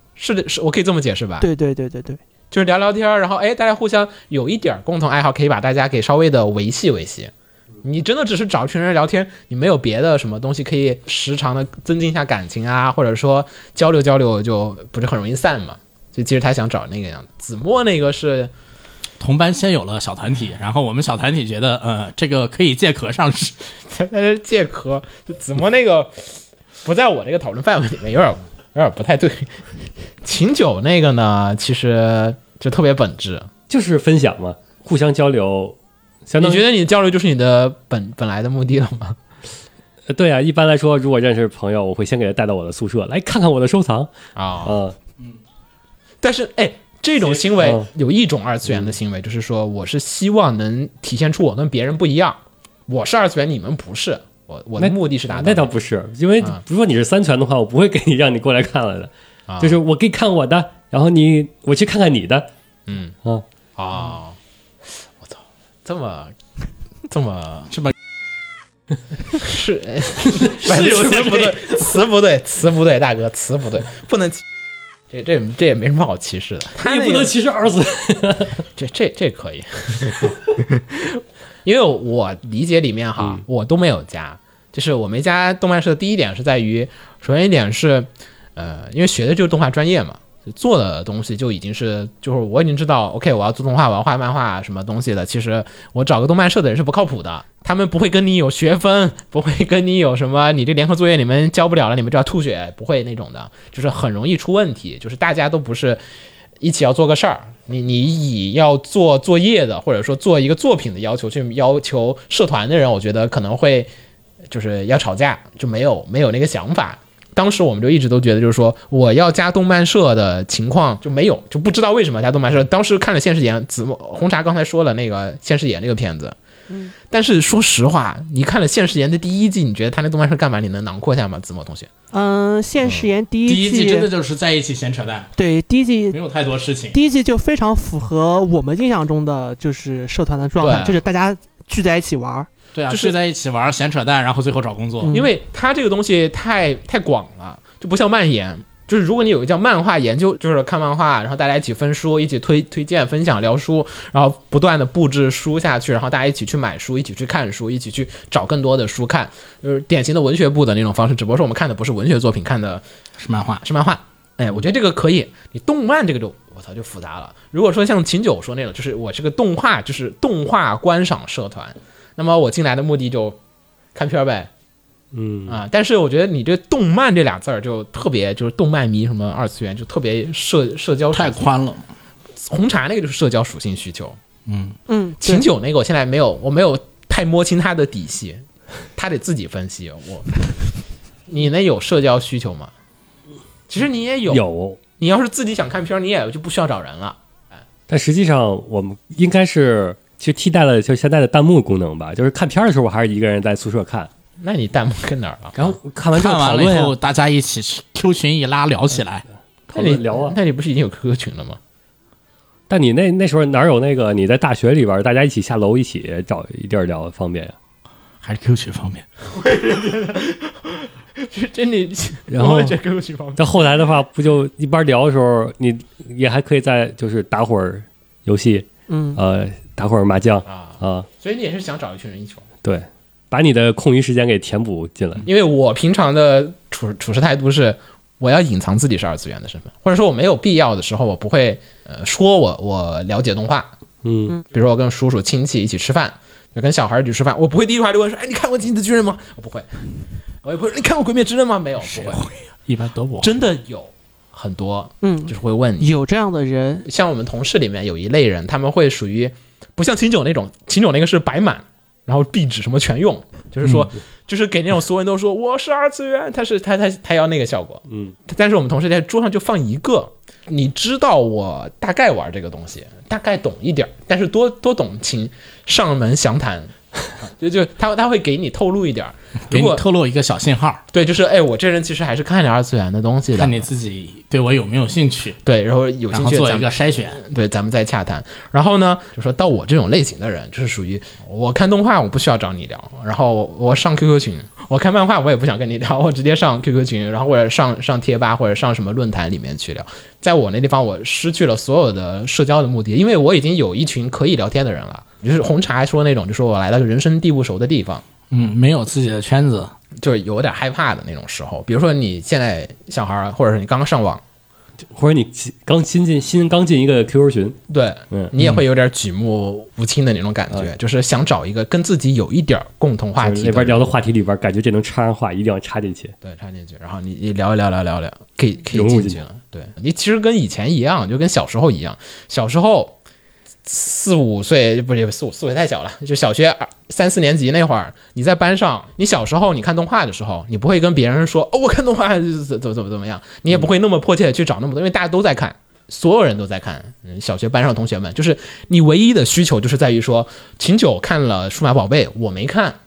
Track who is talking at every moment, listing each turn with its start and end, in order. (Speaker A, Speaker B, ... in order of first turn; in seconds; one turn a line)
Speaker A: 0.2-1.5
Speaker B: 1.4-2.2
Speaker A: 2.5-7.3
Speaker A: 7.8-18.5
Speaker C: 19.2-23.6
Speaker A: 23.8-29.7
Speaker A: 30.2-33.5
Speaker D: 33.7-35.8
Speaker D: 36.3-36.6
Speaker A: 36.4-39.2
Speaker D: 40.1-44.1
Speaker A: 44.4-44.8
Speaker D: 44.6-45.0
Speaker A: 46.2-55.7
Speaker D: 47.6-47.9
Speaker D: 54.8-62.5
Speaker A: 59.5-59.8
Speaker A: 62.9-63.1
Speaker A: 63.8-64.4
Speaker A: 65.0-66.3
Speaker A: 67.1-67.7
Speaker A: 69.3-74.4
Speaker C: 70.5-71.7
Speaker A: 75.1-77.3
Speaker D: 76.8-78.6
Speaker A: 78.8-106.0
Speaker A: 106.6-113.9
Speaker A: 114.5-126.4
Speaker B: 126.7-126.9
Speaker A: 127.0-131.9
Speaker B: 132.1-134.1
Speaker A: 132.8-133.1
Speaker C: 133.5-135.3
Speaker B: 135.4-136.2
Speaker C: 136.1-137.0
Speaker B: 136.9-142.5
Speaker A: 140.6-141.0
Speaker C: 142.7-145.1
Speaker A: 142.9-143.2
Speaker B: 145.0-145.3
Speaker A: 145.1-162.8
Speaker C: 163.2-163.6
Speaker A: 163.6-173.4
Speaker A: 173.9-174.5
Speaker D: 175.1-175.6
Speaker A: 175.5-181.5
Speaker C: 181.1-181.8
Speaker A: 182.4-184.2
Speaker C: 184.5-184.8
Speaker B: 184.9-185.5
Speaker A: 185.2-188.4
Speaker A: 189.0-190.3
Speaker A: 191.3-192.7
Speaker A: 193.7-194.4
Speaker D: 194.3-194.8
Speaker A: 195.0-197.6
Speaker D: 197.9-204.1
Speaker A: 204.4-205.8
Speaker D: 205.6-207.0
Speaker C: 206.1-209.2
Speaker D: 209.7-210.4
Speaker A: 209.7-211.6
Speaker D: 212.7-217.6
Speaker C: 218.2-219.1
Speaker A: 219.3-223.5
Speaker D: 222.3-222.8
Speaker D: 223.4-231.1
Speaker B: 228.9-229.2
Speaker A: 230.5-232.5
Speaker D: 232.6-235.3
Speaker A: 235.2-243.7
Speaker D: 244.0-244.4
Speaker A: 244.5-249.7
Speaker A: 250.4-252.3
Speaker C: 251.9-253.4
Speaker A: 253.2-255.9
Speaker B: 255.0-256.9
Speaker A: 256.9-279.8
Speaker D: 267.9-268.1
Speaker C: 279.5-280.8
Speaker A: 280.9-283.6
Speaker C: 283.4-285.4
Speaker A: 285.4-308.0
Speaker C: 286.1-287.2
Speaker C: 308.3-309.7
Speaker A: 310.0-314.2
Speaker D: 314.9-317.6
Speaker A: 317.7-323.9
Speaker D: 323.2-326.1
Speaker A: 326.2-333.0
Speaker D: 328.7-329.2
Speaker A: 333.6-352.8